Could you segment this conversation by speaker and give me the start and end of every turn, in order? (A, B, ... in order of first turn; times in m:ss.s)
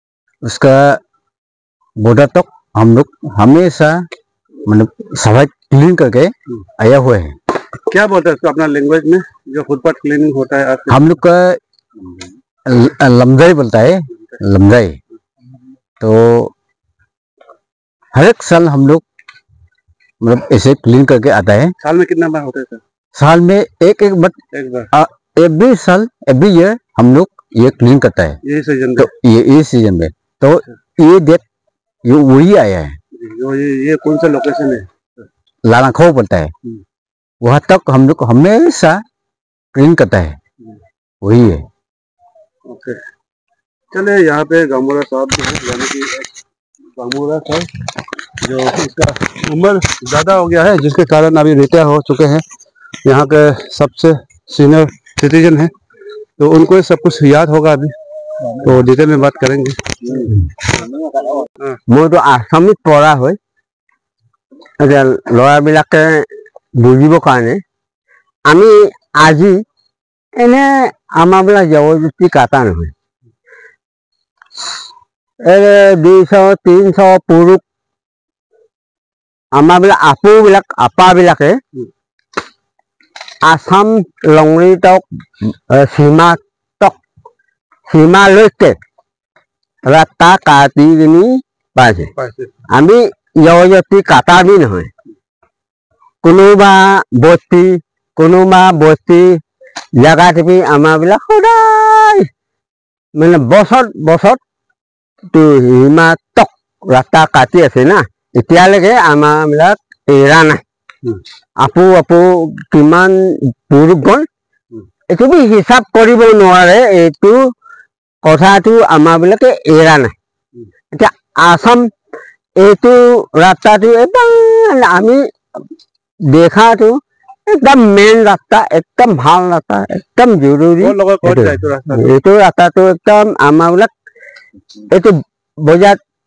0:00.4-0:01.0 A
0:02.0-0:04.0 A
0:04.6-0:07.3 A
0:07.9-0:11.0 B
0:10.9-0:11.6 A
0:12.6-0:15.0 A
0:16.0-0:16.5 A
0:18.1-0:19.0 A
0:20.2-0:21.7 A
0:21.8-0:22.8 B
0:23.1-0:24.4 A
0:24.5-0:24.9 B
0:24.9-0:28.4 A
0:28.4-0:29.1 B
0:29.0-0:31.4 A
0:32.0-0:33.0 A
0:33.1-0:34.9 B
0:35.6-0:36.5 A
0:37.4-0:39.0 A
0:39.7-0:40.4 A
0:41.2-0:41.6 A
0:42.6-0:43.0 B
0:43.9-0:46.3 B
0:47.0-0:47.7 B
0:48.4-0:52.4 B
0:53.0-0:55.7 B
0:56.4-0:57.9 B
0:58.6-1:00.8 B
1:01.9-1:03.4 C
1:04.8-1:07.6 C
1:08.5-1:09.6 C
1:10.4-1:12.9 C
1:15.4-1:17.6 C
1:19.5-1:21.6 C
1:23.4-1:27.0 C
1:27.9-1:28.8 C
1:29.8-1:32.1 C
1:32.2-1:32.5 B
1:32.7-1:34.9 C
1:36.2-1:39.4 C
1:40.0-1:42.3 C
1:43.2-1:44.4 C
1:45.3-1:50.6 C
1:51.6-1:54.3 C
1:55.1-1:57.5 C
1:58.2-2:00.1 C
2:00.9-2:01.9 C
2:02.6-2:05.2 C
2:06.3-2:13.9 C
2:10.8-2:12.1 B
2:14.9-2:16.0 C